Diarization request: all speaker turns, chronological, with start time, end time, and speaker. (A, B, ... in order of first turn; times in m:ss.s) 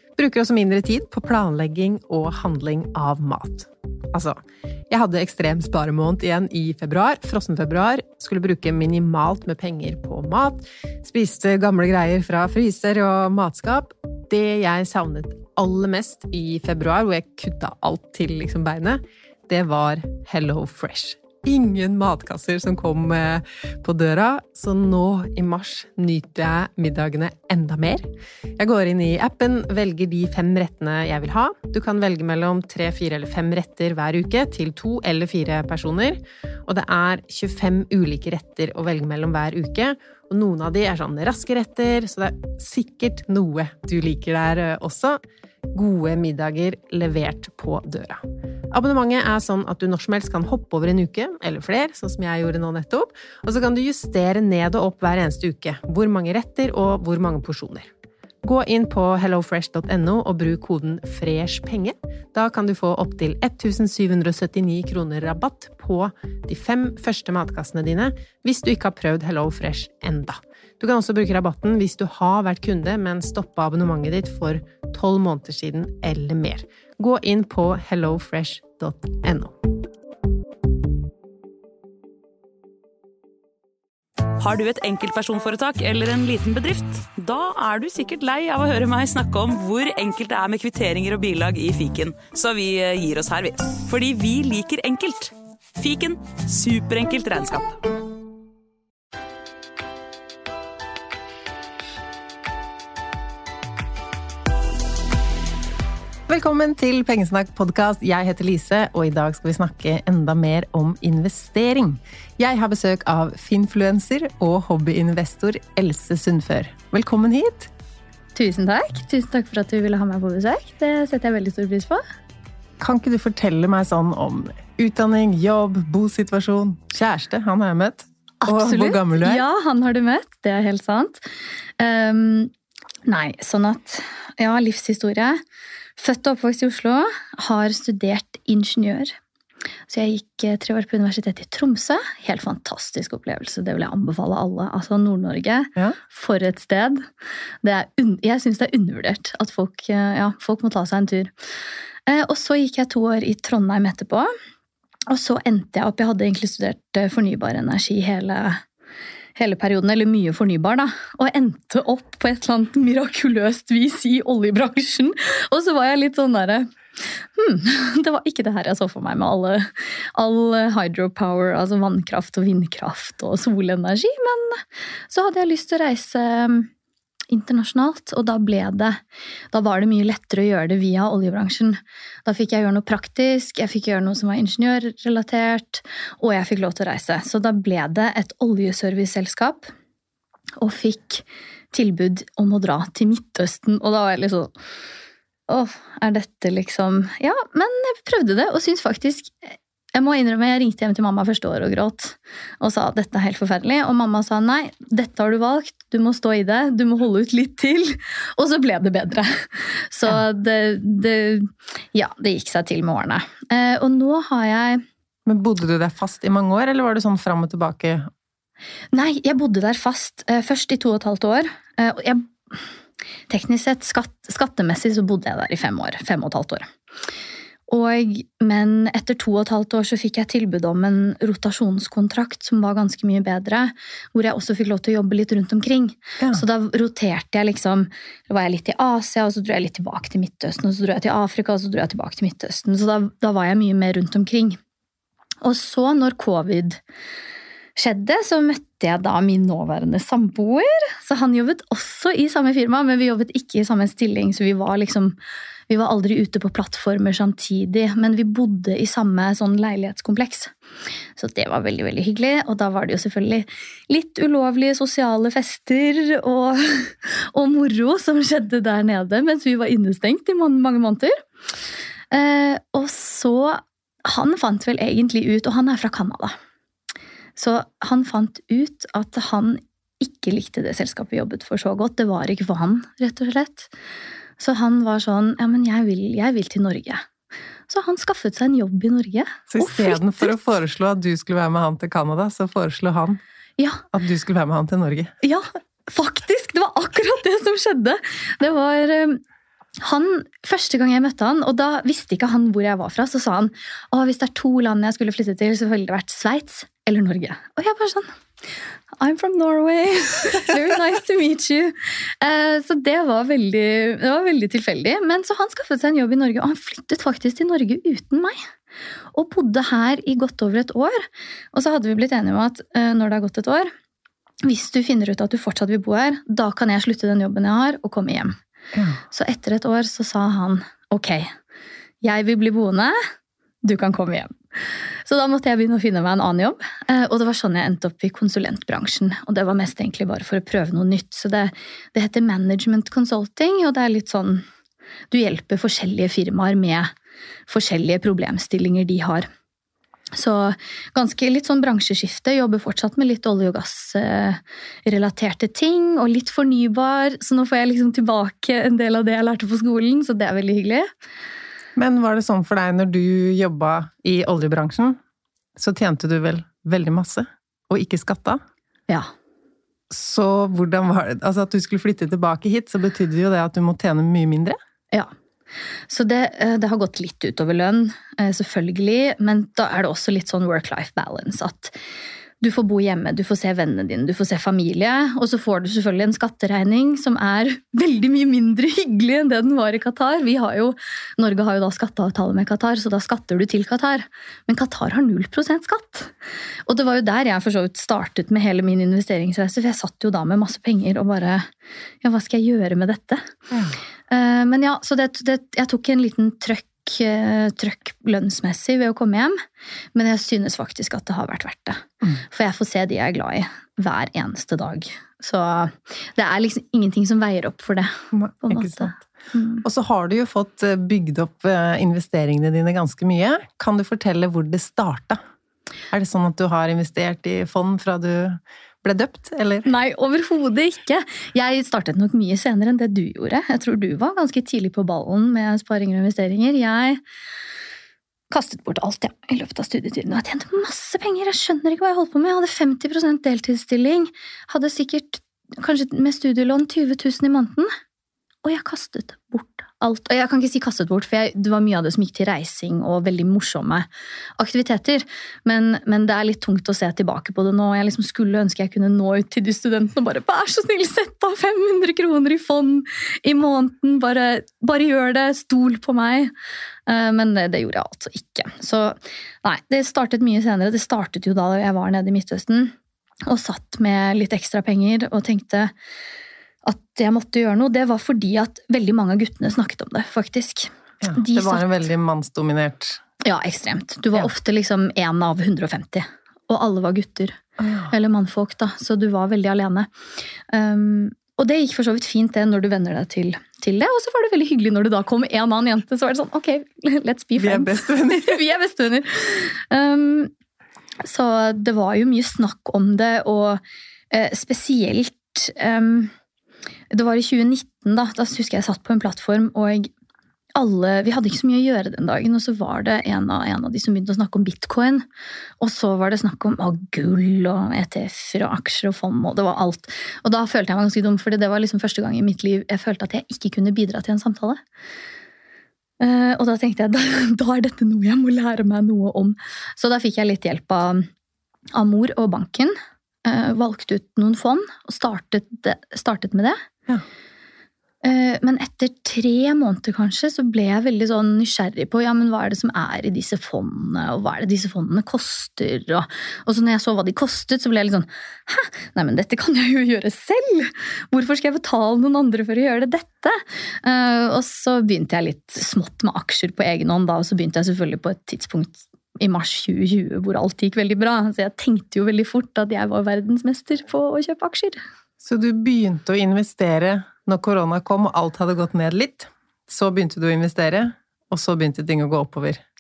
0:00.2-0:04.4 A
0:04.9-0:45.2 A
0:45.7-0:57.9 A
0:58.4-1:19.6 A
1:24.4-1:37.8 B
1:46.3-1:57.7 A
1:58.4-2:02.0 C
2:02.8-2:09.4 A
2:08.4-2:11.3 C
2:11.8-2:12.5 C
2:13.1-2:15.4 C
2:16.0-2:19.2 C
2:19.9-2:27.1 C
2:27.6-2:31.3 C
2:32.1-2:34.3 C
2:35.1-2:38.6 C
2:39.4-2:46.7 C
2:47.4-2:56.7 C
2:57.3-2:59.0 C
2:59.5-3:09.7 C
3:10.6-3:14.5 C
3:15.5-3:34.8 C
3:35.3-3:38.1 A
3:38.9-3:42.3 C
3:43.3-3:46.7 C
3:47.7-4:04.6 C
4:05.4-4:06.8 C
4:07.8-4:15.2 C
4:15.7-4:20.5 C
4:21.2-4:31.2 C
4:32.1-4:36.4 C
4:37.4-4:43.7 C
4:44.4-4:47.0 C
4:47.7-4:50.4 C
4:49.5-4:53.2 A
4:53.6-4:53.8 C
4:53.9-4:55.1 A
4:55.2-4:59.2 C
4:59.8-5:08.1 C
5:09.0-5:18.4 C
5:19.1-5:23.7 C
5:24.4-5:28.4 C
5:28.7-5:29.0 A
5:29.1-5:31.3 C
5:32.0-5:33.0 C
5:33.6-5:44.4 C
5:45.1-5:46.9 C
5:47.5-5:49.3 C
5:50.1-6:00.9 C
6:01.8-6:05.0 A
6:05.6-6:08.4 A
6:09.9-6:14.6 A
6:15.9-6:21.8 C
6:22.4-6:36.1 C
6:36.7-6:41.5 C
6:42.0-6:43.3 C
6:43.5-6:43.8 A
6:44.1-6:49.4 C
6:50.0-6:59.6 C
6:58.1-6:59.0 A
6:59.6-7:05.2 A
7:05.9-7:09.7 A
7:09.6-7:17.0 C
7:18.3-7:27.7 C
7:28.4-7:33.9 C
7:34.4-7:46.3 C
7:46.9-7:52.7 C
7:53.3-7:55.7 C
7:56.6-8:01.9 C
8:01.0-8:03.0 A
8:03.2-8:09.9 C
8:07.6-8:07.9 A
8:10.5-8:20.3 C
8:17.4-8:18.4 A
8:21.0-8:26.1 C
8:26.9-8:29.9 C
8:30.6-8:35.0 C
8:35.6-8:44.6 C
8:46.0-8:51.1 C
8:51.7-8:56.6 C
8:58.0-9:24.8 C
9:25.2-9:32.6 A